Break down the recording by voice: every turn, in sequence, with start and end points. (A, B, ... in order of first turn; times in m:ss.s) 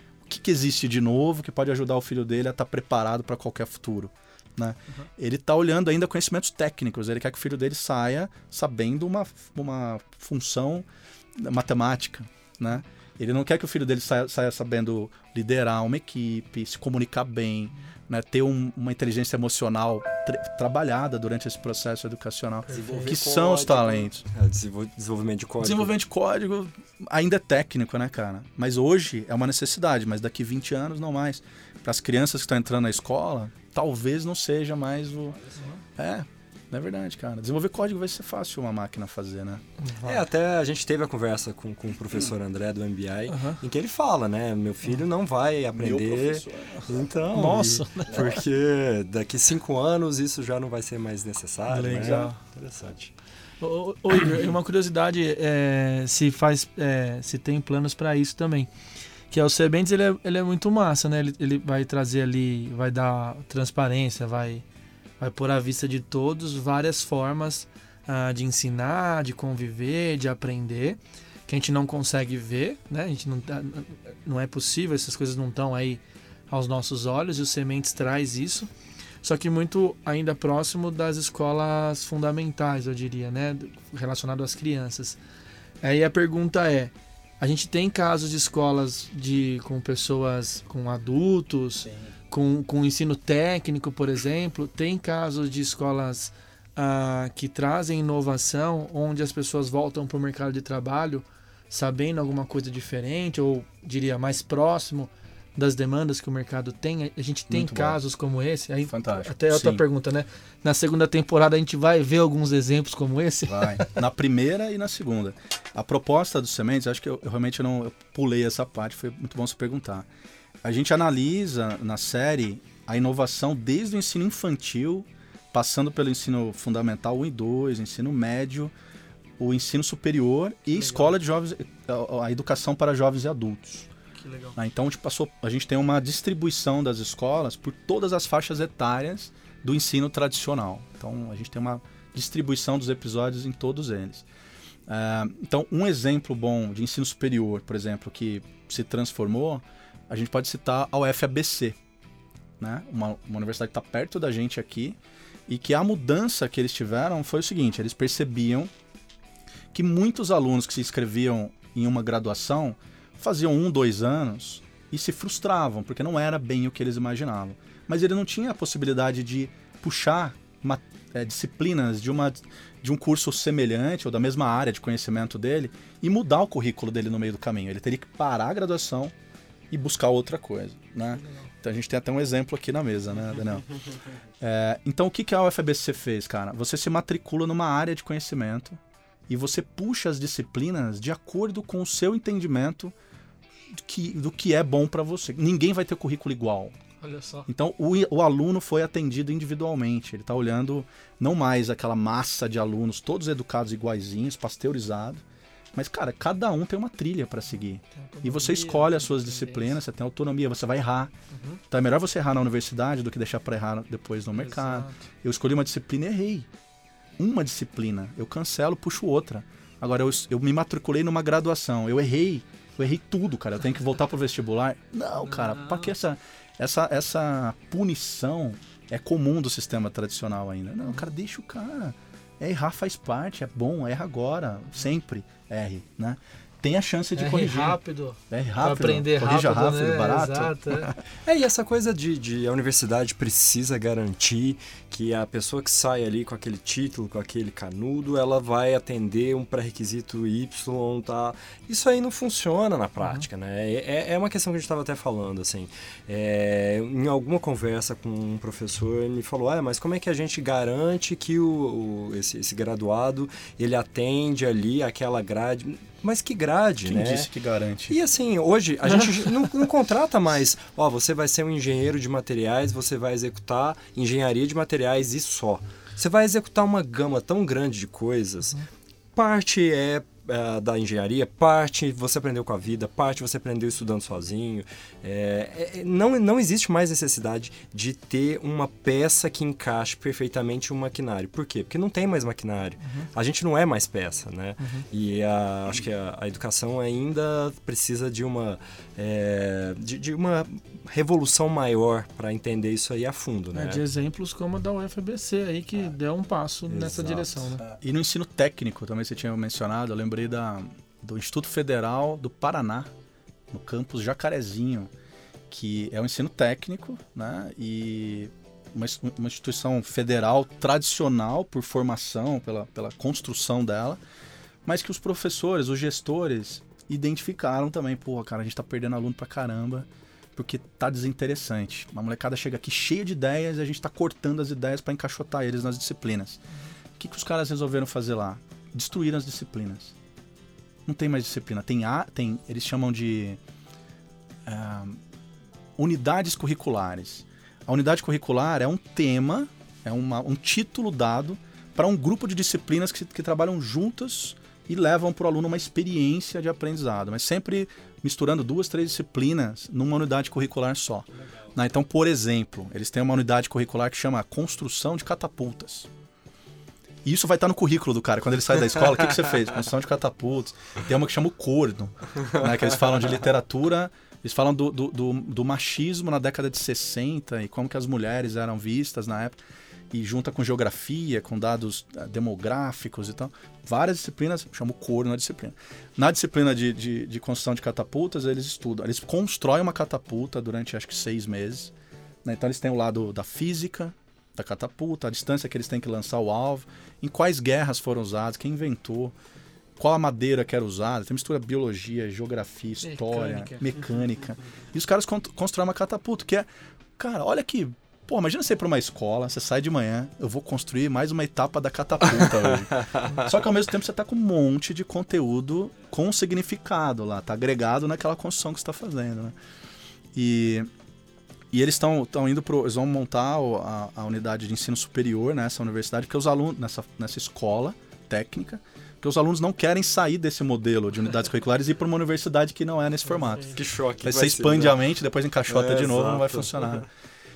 0:00.3-0:24.2 A
0:22.7-0:23.1 B
0:22.7-0:25.9 C
0:25.6-0:35.4 A
0:36.0-0:39.6 A
0:39.8-0:40.2 B
0:40.0-0:53.1 C
0:43.3-0:43.6 B
0:45.7-0:47.0 A
0:47.3-0:48.3 B
0:51.7-0:52.4 B
0:51.9-0:52.3 A
0:53.6-0:58.7 B
0:59.3-1:04.6 B
1:05.2-1:18.7 B
1:19.2-1:25.2 B
1:25.8-1:53.9 B
1:47.5-1:48.0 A
1:48.9-1:49.8 A
1:53.5-2:00.1 A
2:00.6-2:08.7 A
2:09.4-2:13.9 A
2:10.7-2:11.1 B
2:14.2-2:14.6 B
2:14.6-2:24.2 A
2:24.9-2:31.8 A
2:32.6-2:38.7 A
2:39.7-2:59.1 A
2:59.7-3:03.7 A
3:01.2-3:01.5 B
3:04.4-3:12.9 A
3:13.7-3:16.8 A
3:17.0-3:17.5 B
3:17.5-3:25.2 A
3:25.8-3:31.1 A
3:28.0-3:29.8 B
3:31.3-3:31.6 B
3:31.7-3:36.5 A
3:34.4-3:35.0 B
3:37.2-3:57.8 A
3:45.3-3:45.9 B
3:57.2-4:00.9 B
3:58.3-4:01.0 A
4:01.2-4:27.3 C
4:26.8-4:28.0 A
4:27.9-4:38.6 C
4:39.2-5:03.8 C
4:52.8-4:53.1 B
5:03.5-5:07.6 B
5:06.7-5:07.5 C
5:07.6-5:12.9 A
5:13.5-5:14.9 A
5:15.5-5:24.0 A
5:24.6-5:36.4 A
5:37.0-5:39.9 A
5:40.9-5:43.4 A
5:44.5-5:45.0 A
5:45.8-6:05.9 A
6:07.0-6:19.4 A
6:19.9-6:31.7 A
6:32.2-6:39.1 A
6:39.8-6:59.4 A
6:42.8-6:44.0 B
7:00.1-7:00.7 A
7:01.5-7:16.9 A
7:13.2-7:13.5 B
7:13.5-7:14.8 C
7:15.5-7:16.9 C